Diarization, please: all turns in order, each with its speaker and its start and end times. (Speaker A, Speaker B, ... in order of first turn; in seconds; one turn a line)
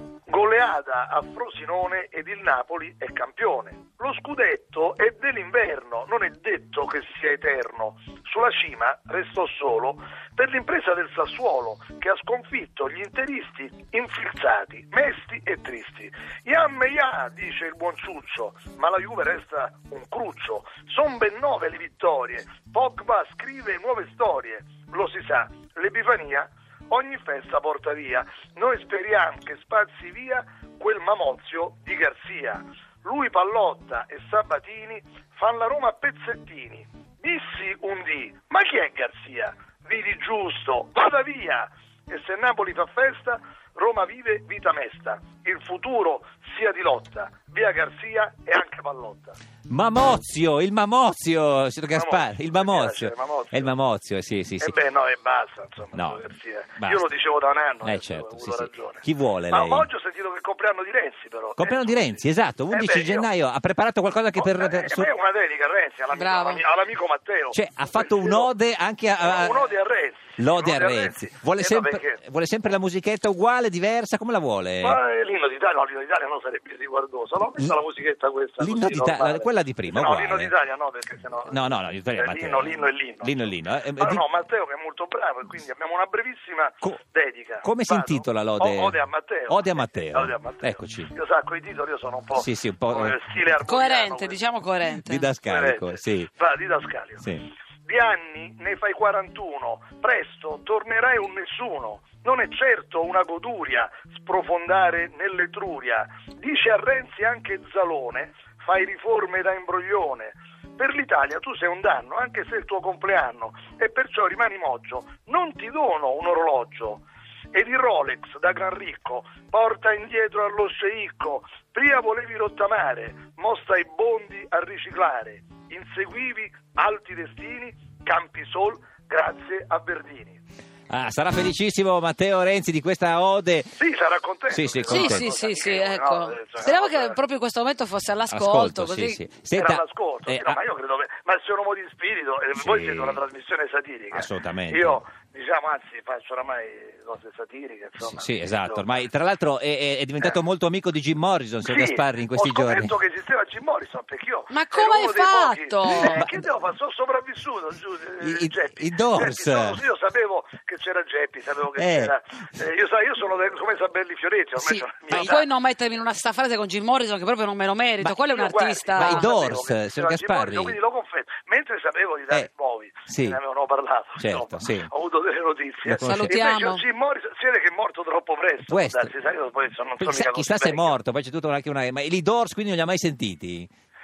Speaker A: 0.3-49.4
Speaker B: 49.7-54.7
Speaker A: 51.9-53.7
Speaker A: 54.6-63.3
Speaker B: 55.9-56.2
Speaker B: 56.8-57.0
Speaker B: 57.8-59.9
Speaker B: 61.6-65.1
Speaker A: 64.3-68.5
Speaker C: 66.1-66.6
Speaker B: 67.5-69.7
Speaker A: 69.2-72.2
Speaker B: 70.4-75.0
Speaker A: 74.8-83.3
Speaker B: 78.6-80.5
Speaker B: 81.5-84.2
Speaker A: 84.0-94.4
Speaker B: 87.6-91.1
Speaker B: 92.3-93.2
Speaker C: 93.6-95.3
Speaker B: 94.9-96.3
Speaker A: 95.4-97.2
Speaker B: 97.2-97.5
Speaker A: 97.8-130.4
Speaker B: 130.9-133.7
Speaker A: 133.8-137.2
Speaker B: 134.5-135.3
Speaker C: 134.9-139.2
Speaker B: 138.3-140.6
Speaker A: 139.5-148.9
Speaker B: 142.6-143.2
Speaker B: 144.1-145.0
Speaker B: 148.2-152.9
Speaker A: 151.6-165.5
Speaker C: 154.5-156.2
Speaker B: 156.0-156.4
Speaker B: 158.2-159.8
Speaker B: 161.8-162.1
Speaker C: 164.6-169.3
Speaker A: 168.0-180.9
Speaker B: 169.0-170.8
Speaker B: 173.1-173.4
Speaker B: 174.2-174.9
Speaker B: 175.8-176.4
Speaker C: 176.0-176.8
Speaker B: 178.7-179.1
Speaker B: 180.0-183.7